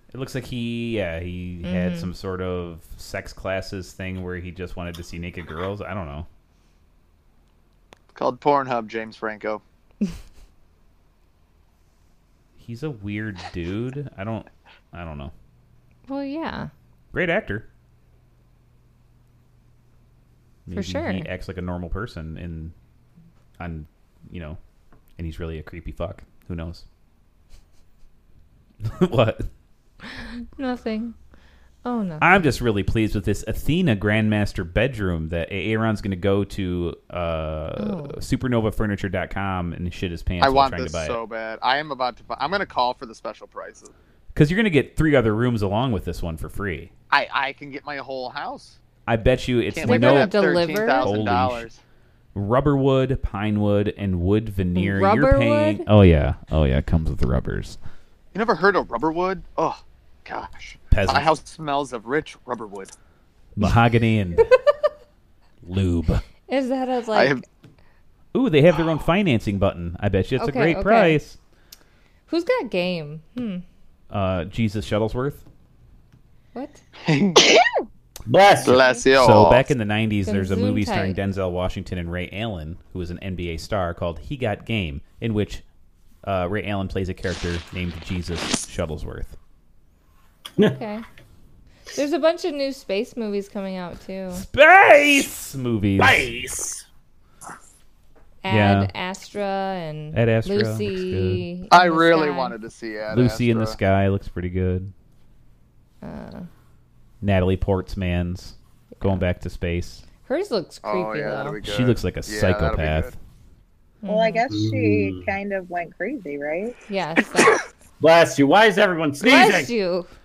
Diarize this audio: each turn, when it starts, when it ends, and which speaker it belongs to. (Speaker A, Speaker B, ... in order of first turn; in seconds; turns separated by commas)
Speaker A: 0.1-6.3, Speaker B: 1.6-2.1, Speaker C: 8.1-9.6, Speaker A: 12.6-15.3, Speaker B: 16.1-16.7, Speaker A: 17.1-17.7, Speaker A: 20.7-22.7, Speaker B: 20.7-21.3, Speaker A: 23.6-24.6, Speaker A: 25.2-26.9, Speaker A: 28.8-29.5, Speaker B: 30.1-31.1, Speaker B: 31.8-32.4, Speaker A: 32.2-41.2, Speaker B: 37.8-38.2, Speaker C: 40.4-43.9, Speaker A: 44.4-46.9, Speaker C: 47.1-48.8, Speaker A: 49.1-50.4, Speaker C: 49.7-51.8, Speaker B: 49.8-51.1, Speaker A: 51.0-51.7, Speaker A: 52.4-57.8, Speaker B: 54.8-55.9, Speaker C: 58.3-62.9, Speaker A: 60.9-61.3, Speaker A: 63.6-64.5, Speaker A: 65.6-66.2, Speaker B: 66.5-67.4, Speaker C: 67.1-67.4, Speaker A: 68.3-71.4, Speaker B: 70.4-71.2, Speaker B: 72.3-73.7, Speaker A: 74.1-75.5, Speaker B: 76.5-76.8, Speaker C: 77.0-77.4, Speaker D: 77.4-77.8, Speaker E: 78.3-78.8, Speaker C: 78.6-79.7, Speaker B: 78.7-79.1, Speaker A: 79.1-85.6, Speaker B: 80.3-81.2, Speaker A: 86.2-89.4, Speaker B: 90.6-91.0, Speaker B: 91.9-94.5, Speaker A: 94.3-96.3, Speaker E: 96.0-96.8, Speaker B: 98.4-102.6, Speaker A: 98.5-98.9, Speaker A: 100.1-101.5, Speaker C: 101.7-103.8, Speaker A: 103.1-104.9, Speaker B: 106.0-106.5, Speaker A: 107.2-110.0, Speaker B: 110.2-111.6, Speaker C: 110.8-113.1, Speaker A: 111.6-113.2, Speaker B: 114.0-114.4, Speaker D: 114.1-116.8, Speaker E: 114.5-115.3, Speaker B: 116.9-117.7, Speaker E: 118.0-119.7, Speaker B: 119.2-120.1